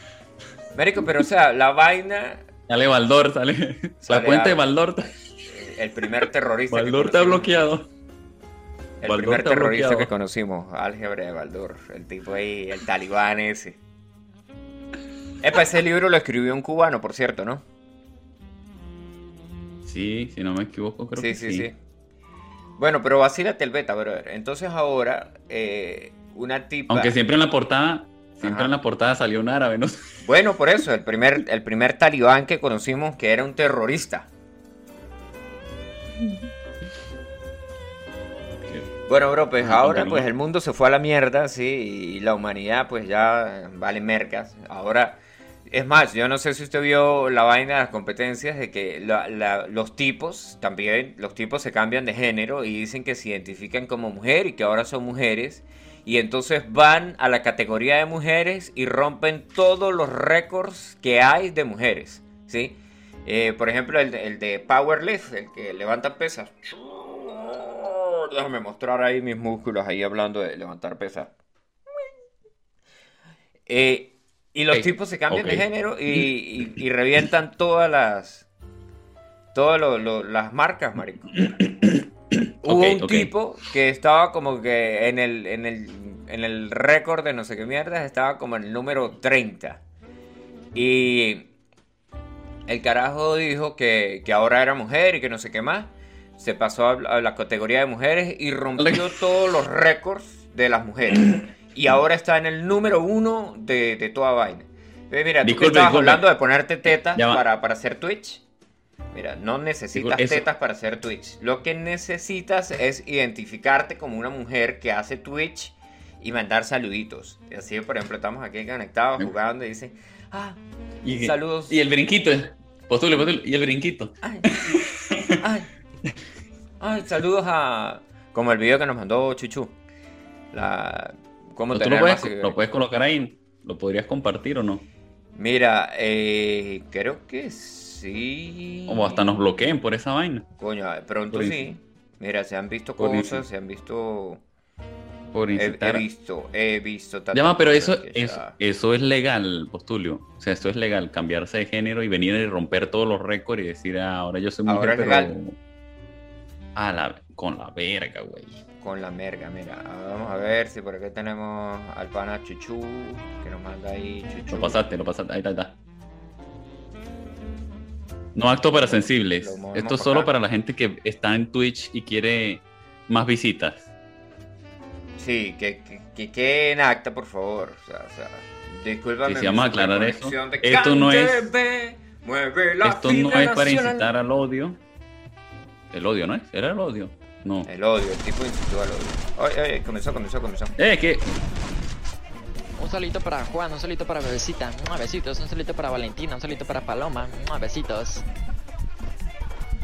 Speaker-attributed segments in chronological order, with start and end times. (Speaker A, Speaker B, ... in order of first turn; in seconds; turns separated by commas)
Speaker A: 0.7-2.5, Speaker B: 2.7-5.2, Speaker A: 4.0-4.7, Speaker A: 5.5-7.6, Speaker B: 6.2-7.9, Speaker A: 9.0-13.8, Speaker B: 9.0-10.1, Speaker A: 15.4-17.6, Speaker B: 19.8-21.7, Speaker A: 21.2-21.8, Speaker A: 22.8-27.1, Speaker B: 26.9-30.1, Speaker A: 28.4-28.7, Speaker A: 30.2-34.3, Speaker B: 38.6-38.9, Speaker A: 39.1-71.3, Speaker B: 39.6-40.3, Speaker A: 73.7-78.5, Speaker B: 74.7-76.7, Speaker A: 79.5-81.5, Speaker B: 81.4-83.3, Speaker A: 82.6-89.8, Speaker A: 90.7-91.5, Speaker A: 92.7-108.4, Speaker B: 98.8-99.1, Speaker B: 105.4-106.2, Speaker B: 107.1-107.4, Speaker A: 109.1-121.8, Speaker B: 110.0-110.5, Speaker B: 121.0-125.4, Speaker A: 124.2-124.8, Speaker A: 125.4-125.7, Speaker A: 126.8-129.8, Speaker A: 130.5-132.6, Speaker B: 131.7-134.8, Speaker A: 135.4-139.4, Speaker B: 138.9-140.5, Speaker A: 140.6-144.4, Speaker B: 141.3-141.7, Speaker B: 143.0-143.4, Speaker B: 145.3-146.1, Speaker A: 145.6-148.6, Speaker B: 147.3-155.6, Speaker A: 154.7-155.3, Speaker B: 156.8-158.6, Speaker A: 158.8-164.8, Speaker B: 164.5-165.8, Speaker B: 168.3-173.9, Speaker A: 168.8-170.3, Speaker A: 175.2-184.1, Speaker B: 179.3-181.5, Speaker B: 182.8-184.8, Speaker B: 185.9-187.7, Speaker A: 187.7-190.8, Speaker B: 190.8-191.3, Speaker C: 192.8-198.3